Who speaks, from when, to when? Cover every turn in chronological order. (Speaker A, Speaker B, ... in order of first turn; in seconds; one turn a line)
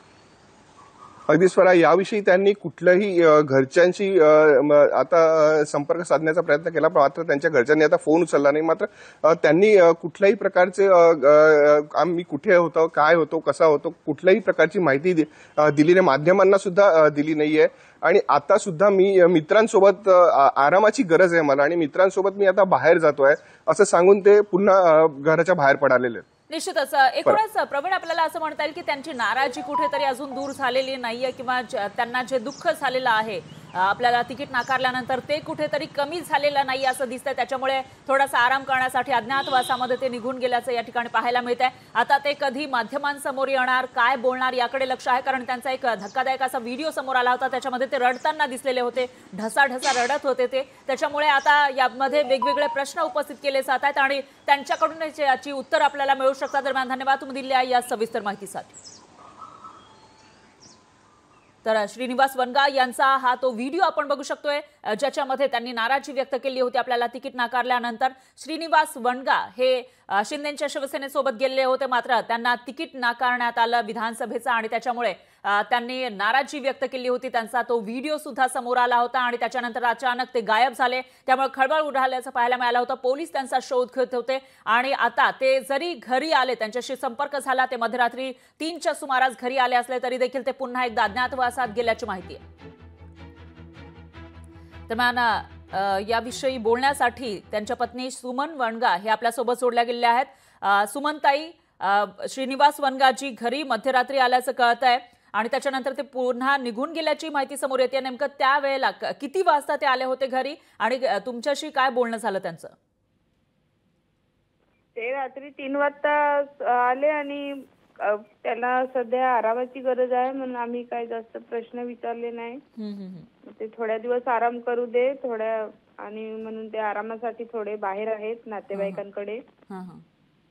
Speaker A: 1.3-26.2
Speaker B: 26.5-58.7
Speaker B: 61.6-92.4
Speaker B: 94.9-112.7
Speaker C: 115.0-117.5
Speaker C: 118.0-122.6
Speaker B: 122.8-123.3
Speaker C: 123.5-129.4
Speaker B: 128.7-129.0
Speaker B: 129.7-130.0